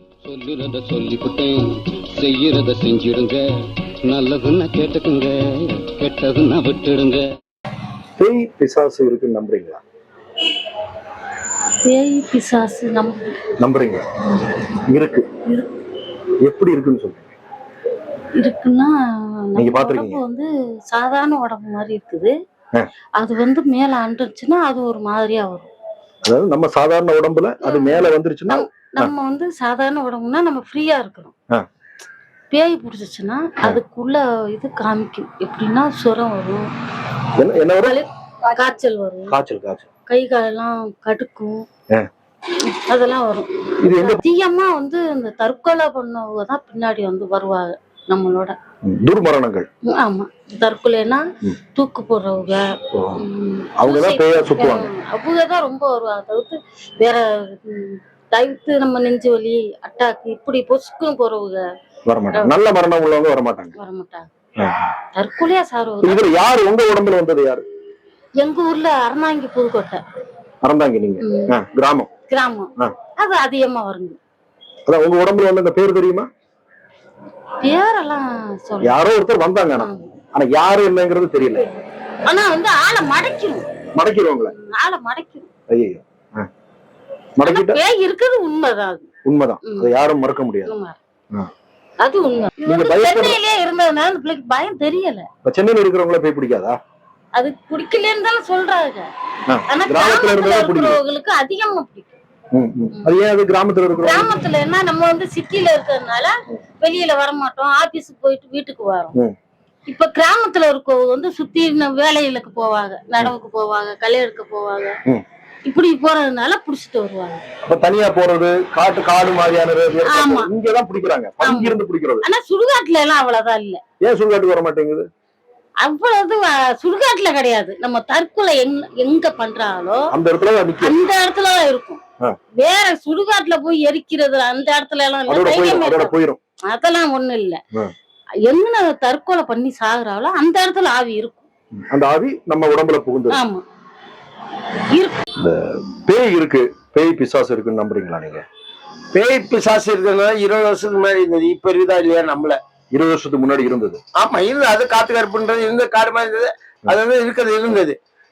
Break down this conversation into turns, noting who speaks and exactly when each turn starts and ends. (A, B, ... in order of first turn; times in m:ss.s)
0:00.2-0:07.3 A
0:08.2-0:09.8 B
0:11.8-0:13.4 C
0:13.6-0:14.0 B
0:14.8-0:15.2 B
0:16.4-0:17.3 B
0:18.4-0:22.3 C
0:19.6-0:20.2 B
0:23.2-0:25.7 C
0:26.2-0:29.1 B
0:27.6-0:31.3 C
0:32.5-0:36.6 C
0:37.4-0:38.0 B
0:37.8-0:39.3 C
0:39.3-0:39.9 B
0:40.1-0:41.6 C
0:42.6-0:48.6 C
0:43.8-0:44.2 B
0:48.8-0:49.7 B
0:49.9-1:01.6 C
0:52.9-0:53.2 B
0:53.8-0:54.9 B
1:02.1-1:03.7 B
1:03.8-1:04.3 C
1:04.6-1:04.8 B
1:05.1-1:06.2 C
1:06.0-1:07.6 B
1:08.4-1:10.0 C
1:10.6-1:12.1 B
1:11.2-1:11.5 C
1:12.3-1:14.2 C
1:14.9-1:16.3 B
1:17.6-1:18.9 C
1:18.8-1:21.7 B
1:19.8-1:20.1 C
1:22.2-1:23.7 C
1:23.9-1:24.5 B
1:24.5-1:25.5 C
1:25.7-1:26.5 B
1:27.4-1:27.8 B
1:27.4-1:29.1 C
1:29.2-1:30.7 B
1:29.6-1:29.9 C
1:30.6-1:31.0 C
1:32.0-1:35.3 C
1:32.6-1:33.4 B
1:35.4-1:36.8 B
1:37.3-1:39.1 C
1:39.5-1:41.0 B
1:39.7-1:42.2 C
1:42.5-1:44.3 B
1:44.0-1:49.1 C
1:49.9-1:54.9 C
1:55.6-1:57.4 C
1:57.6-2:02.2 B
2:00.0-2:00.5 C
2:01.4-2:03.8 C
2:04.0-2:05.1 B
2:05.8-2:10.0 C
2:10.1-2:11.0 B
2:10.8-2:12.0 C
2:12.6-2:16.2 C
2:15.3-2:16.4 B
2:16.7-2:17.6 C
2:18.5-2:21.4 C
2:21.7-2:23.4 B
2:23.3-2:23.6 C
2:24.9-2:25.2 C
2:25.4-2:28.4 B
2:29.1-2:32.6 D
2:32.9-2:34.0 B
2:34.2-2:38.0 D